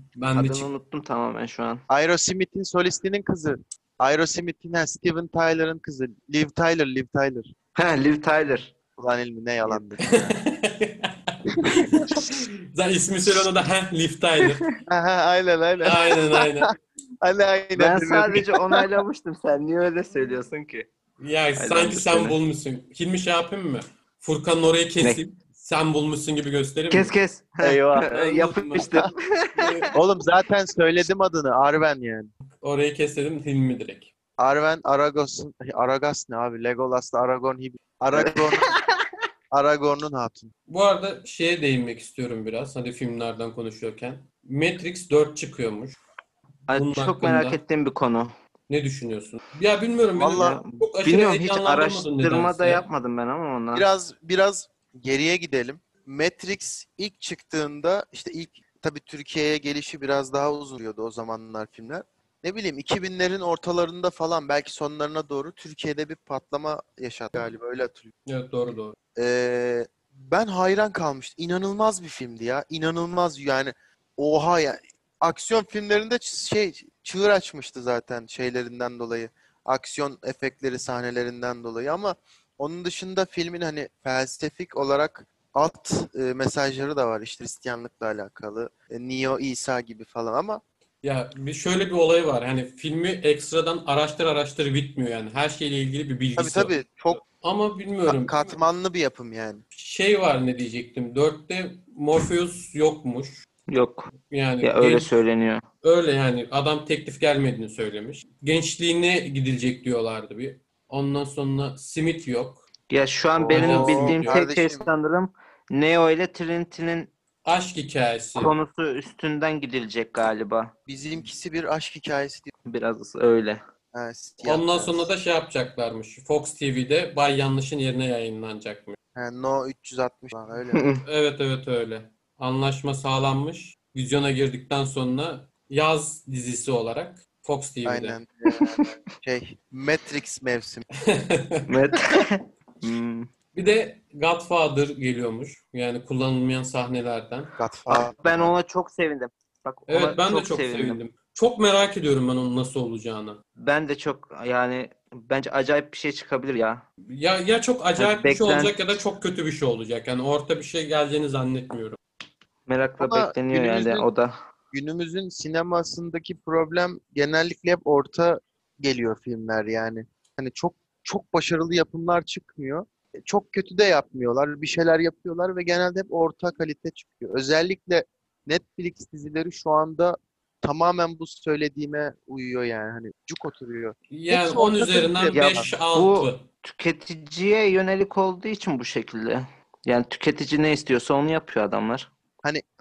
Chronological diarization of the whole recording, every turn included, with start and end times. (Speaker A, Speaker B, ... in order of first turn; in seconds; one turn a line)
Speaker A: 0.1-0.7
Speaker B: 0.4-1.8
Speaker C: 1.9-7.5
Speaker B: 7.8-8.7
Speaker C: 9.0-10.3
Speaker B: 9.7-9.9
Speaker A: 10.1-14.7
Speaker C: 14.9-16.7
Speaker A: 15.8-16.7
Speaker C: 17.2-18.8
Speaker B: 17.8-20.9
Speaker A: 21.2-27.1
Speaker B: 21.6-22.4
Speaker B: 26.9-29.9
Speaker C: 27.6-28.1
Speaker A: 28.1-28.9
Speaker A: 29.6-29.9
Speaker C: 29.9-32.3
Speaker A: 32.6-34.1
Speaker C: 34.4-38.8
Speaker B: 38.1-38.9
Speaker C: 39.5-40.5
Speaker A: 40.7-46.0
Speaker B: 46.7-48.3
Speaker A: 46.7-47.6
Speaker A: 48.7-52.8
Speaker C: 50.2-50.6
Speaker B: 50.4-53.9
Speaker C: 53.7-68.1
Speaker A: 68.3-69.0
Speaker C: 69.2-90.6
Speaker A: 91.0-98.6
Speaker C: 96.4-97.2
Speaker C: 98.1-99.6
Speaker A: 99.7-103.5
Speaker B: 103.7-104.1
Speaker A: 104.3-105.2
Speaker B: 104.6-105.6
Speaker A: 105.8-112.7
Speaker B: 112.9-117.1
Speaker C: 113.4-114.9
Speaker A: 113.5-114.3
Speaker A: 117.5-118.5
Speaker B: 118.4-120.7
Speaker C: 120.9-122.5
Speaker B: 122.7-123.6
Speaker C: 123.9-125.1
Speaker A: 124.4-129.0
Speaker C: 129.2-130.9
Speaker B: 130.7-131.0
Speaker A: 131.0-138.2
Speaker C: 137.8-140.8
Speaker B: 138.6-138.8
Speaker A: 141.0-141.7
Speaker B: 141.7-143.3
Speaker A: 143.5-147.5
Speaker C: 147.6-148.5
Speaker B: 147.9-151.0
Speaker A: 149.9-153.4
Speaker B: 153.6-156.8
Speaker A: 157.1-162.0
Speaker B: 158.0-158.8
Speaker B: 162.7-164.3
Speaker C: 163.0-164.1
Speaker C: 164.7-185.7
Speaker A: 184.1-186.4
Speaker B: 185.3-192.1